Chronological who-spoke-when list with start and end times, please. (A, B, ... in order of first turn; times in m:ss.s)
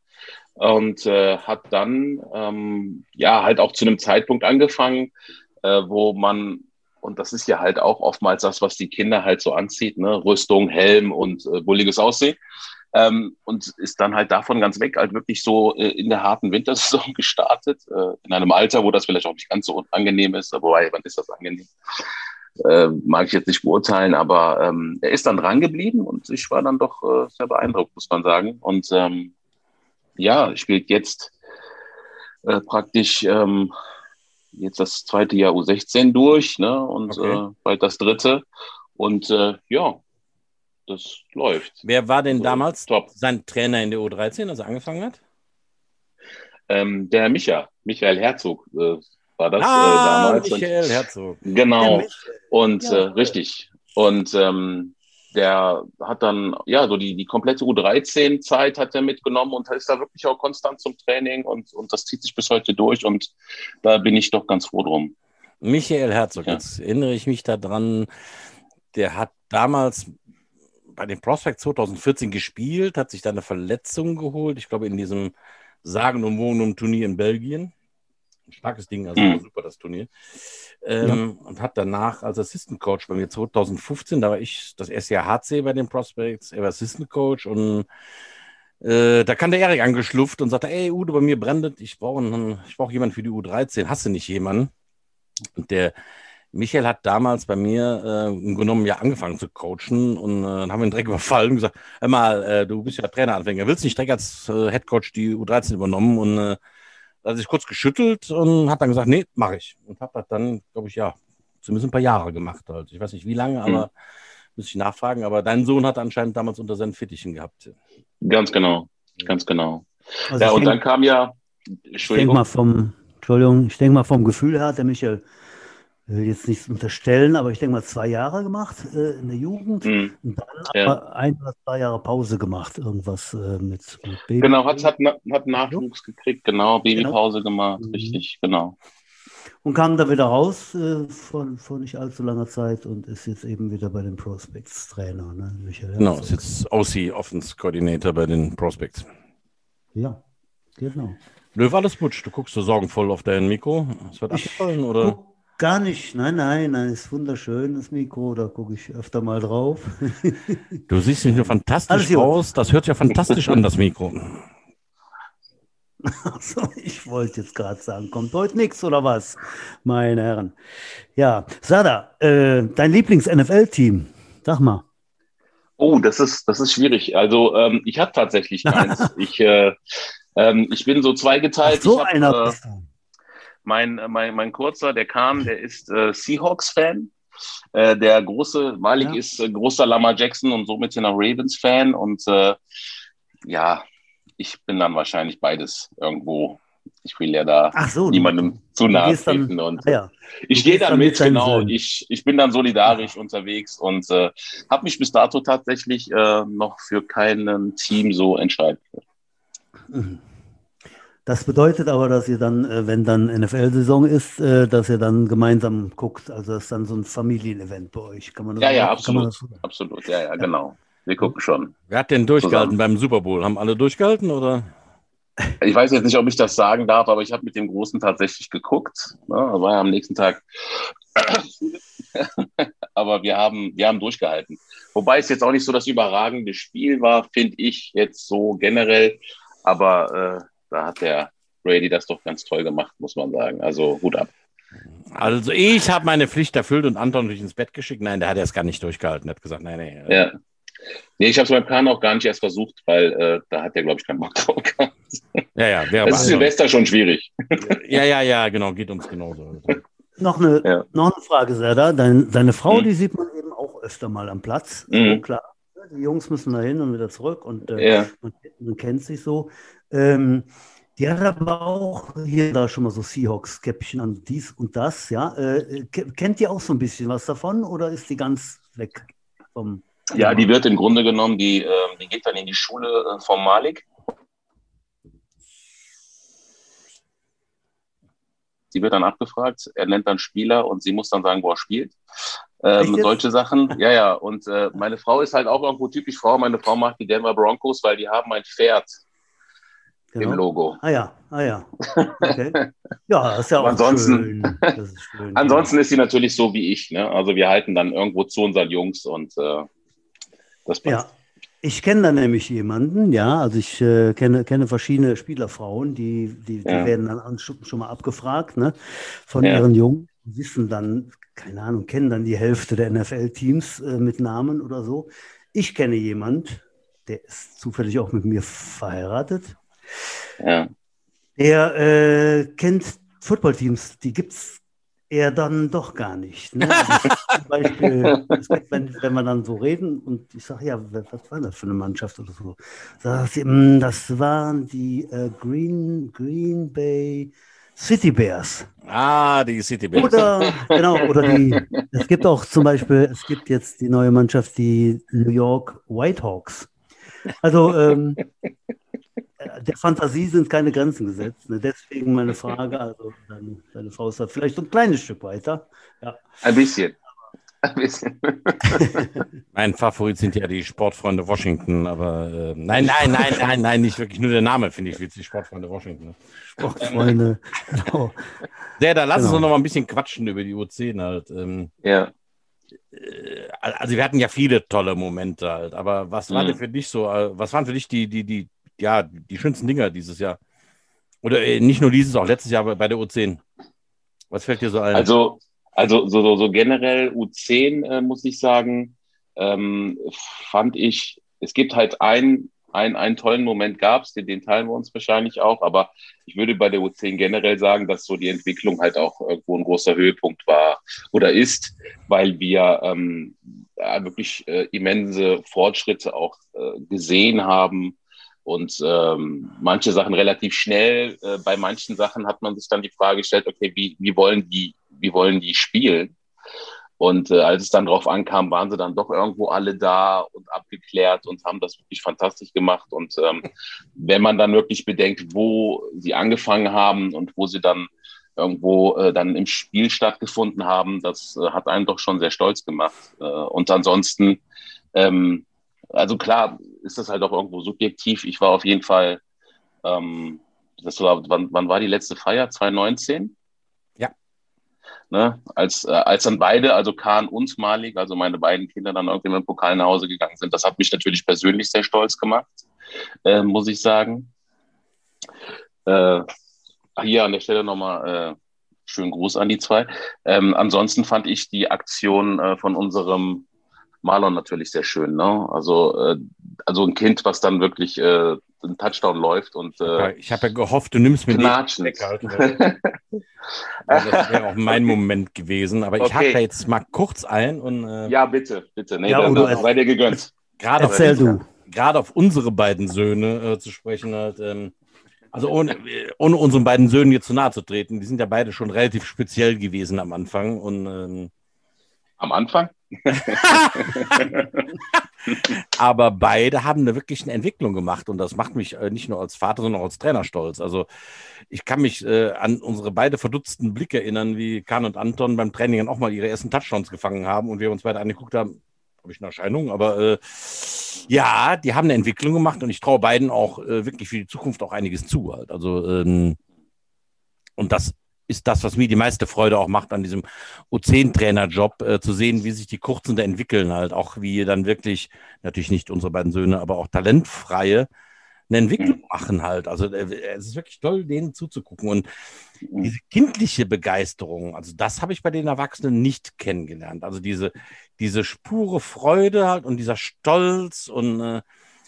0:00.6-0:05.1 A
0:05.6-0:12.4 A
0:12.9-0:21.7 A
0:22.6-0:29.3 A
0:30.2-0:31.3 A
0:32.4-0:33.7 A
0:34.5-0:38.4 A
0:37.1-0:37.4 B
0:39.0-0:40.0 A
0:40.9-0:43.1 A
0:41.8-0:45.2 B
0:46.7-1:05.1 A
0:49.6-0:51.5 B
0:51.8-0:53.3 C
1:05.6-1:08.1 B
1:08.9-1:10.1 B
1:10.9-1:17.7 B
1:18.5-1:27.8 B
1:19.2-1:19.4 A
1:28.8-1:34.7 B
1:35.6-1:35.9 B
1:36.5-1:46.6 B
1:47.2-1:53.9 B
1:54.6-1:57.8 B
1:58.2-2:01.4 A
2:00.3-2:00.8 C
2:01.9-2:02.4 A
2:02.0-2:05.2 C
2:06.1-2:14.9 C
2:09.8-2:10.1 A
2:10.7-2:11.0 A
2:14.4-2:18.8 A
2:15.6-2:15.8 C
2:17.8-2:18.2 C
2:19.6-2:26.4 C
2:26.0-2:29.1 B
2:29.9-2:30.2 C
2:30.8-2:31.2 C
2:31.5-2:35.2 B
2:34.3-2:40.8 C
2:40.9-2:44.4 B
2:41.9-2:42.3 C
2:46.0-2:50.5 C
2:51.2-2:54.8 C
2:55.8-3:02.6 A
2:58.6-2:59.1 C
3:01.6-3:02.9 C
3:03.6-3:07.1 A
3:07.7-3:12.6 A
3:13.4-3:13.8 A
3:14.4-3:20.0 A
3:17.7-3:21.8 C
3:20.5-3:29.0 A
3:29.9-3:30.2 C
3:31.2-3:39.6 C
3:38.6-3:41.7 A
3:41.9-3:44.7 B
3:42.4-3:42.7 A
3:45.6-4:04.3 A
4:05.1-4:10.3 B
4:10.1-4:10.3 A
4:11.2-4:15.4 A
4:15.5-4:16.5 B
4:16.0-4:17.8 A
4:16.1-4:16.4 C
4:17.6-4:19.8 B
4:20.2-4:40.5 C
4:24.9-4:25.2 A
4:27.7-4:28.1 A
4:40.1-4:43.8 A
4:48.7-4:52.0 A
4:52.6-4:59.0 A
4:52.8-4:53.2 C
5:00.1-5:05.7 C
5:00.2-5:00.8 A
5:01.9-5:02.7 A
5:03.6-5:04.7 A
5:05.3-5:09.7 A
5:10.6-5:11.0 A
5:10.8-5:29.6 C
5:16.6-5:16.9 A
5:30.4-5:30.7 A
5:31.4-5:48.7 C
5:48.9-5:50.2 B
5:49.9-5:56.7 C
5:50.7-5:51.8 A
5:57.4-5:58.2 C
5:59.4-6:06.2 C
6:06.4-6:07.0 A
6:07.6-6:09.0 A
6:09.5-6:16.2 B
6:13.2-6:13.4 A
6:16.6-6:18.2 C
6:18.8-6:21.7 B
6:19.1-6:19.4 C
6:21.8-6:22.1 A
6:22.9-6:30.4 B
6:26.3-6:26.6 A
6:31.2-6:33.4 B
6:34.3-6:35.1 B
6:34.9-7:06.1 A
7:07.0-7:24.4 A
7:24.9-7:29.2 A
7:29.8-7:33.3 A
7:35.1-7:42.6 A
7:43.2-7:44.3 A
7:45.8-7:46.2 A
7:47.0-7:48.4 A
7:48.9-7:53.4 A
7:54.0-8:00.1 A
7:59.8-8:02.6 B
8:01.3-8:03.0 A
8:03.9-8:04.9 A
8:03.9-8:08.1 B
8:06.0-8:06.4 A
8:08.0-8:11.2 A
8:09.1-8:09.7 C
8:09.3-8:09.6 B
8:10.6-8:14.7 B
8:10.8-8:11.4 C
8:15.3-8:21.3 B
8:22.2-8:24.7 A
8:23.2-8:24.3 B
8:25.4-8:30.8 B
8:31.5-8:46.4 B
8:47.6-8:57.9 B
8:58.5-9:02.0 B
9:02.8-9:11.4 B